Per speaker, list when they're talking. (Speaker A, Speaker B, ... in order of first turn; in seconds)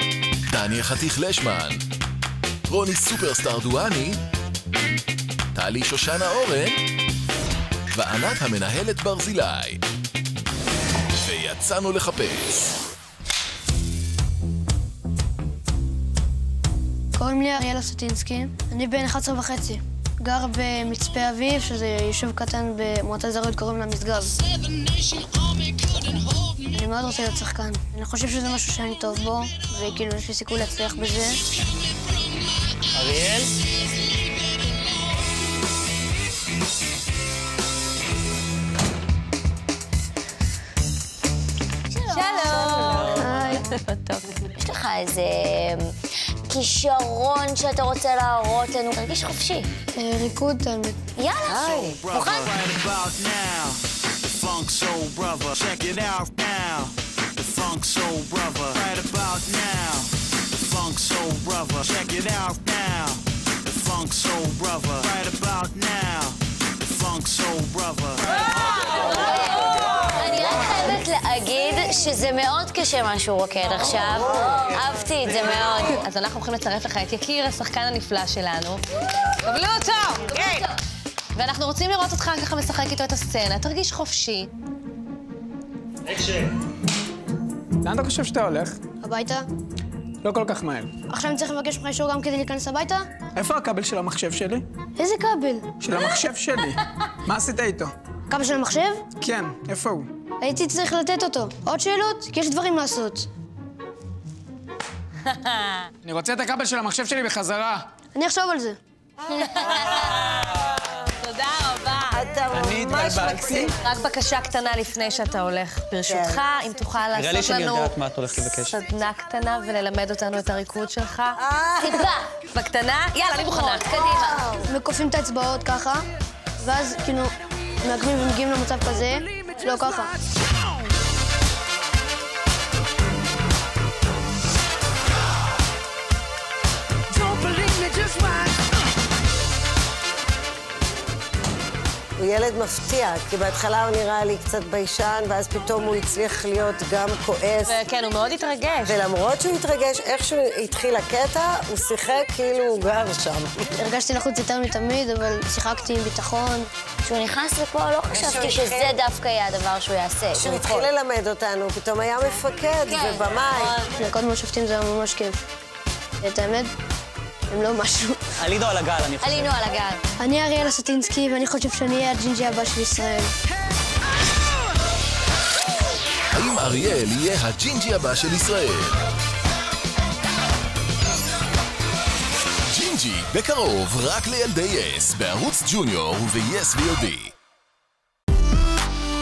Speaker A: 0.5-1.8, 2.7-4.2, 5.5-6.8, 7.9-9.8, 11.2-12.8, 176.3-179.0, 182.7-187.3
Speaker B: 17.1-24.4, 26.4-31.4, 43.2-43.7, 50.0-51.0, 89.0-89.5, 91.1-93.1, 95.0-95.7, 98.3-99.0, 100.4-103.3, 108.1-108.8, 124.6-126.0, 126.6-130.2, 153.8-156.7, 164.0-165.4, 166.2-166.7, 167.5-168.2, 170.2-173.3
Speaker C: 33.0-33.5, 117.1-118.8, 168.4-169.7
Speaker D: 41.9-43.4, 43.9-45.9, 46.5-49.7, 51.2-52.5, 69.9-76.0, 157.1-160.9, 162.9-163.6, 169.2-170.0
Speaker E: 42.1-43.6, 75.8-78.8, 79.4-80.5, 81.3-84.5, 105.4-105.9, 109.3-110.5, 111.0-112.2, 113.8-118.0, 118.6-121.4, 122.3-124.5, 147.6-149.0
Speaker F: 51.5-68.4
Speaker G: 87.8-88.8, 90.2-90.9, 93.4-94.7, 95.8-97.9, 99.2-100.1, 106.0-107.9, 112.5-113.8
Speaker H: 112.1-113.7, 116.0-116.4, 121.4-122.1, 142.2-147.8, 148.8-153.7, 158.1-159.0, 160.3-163.8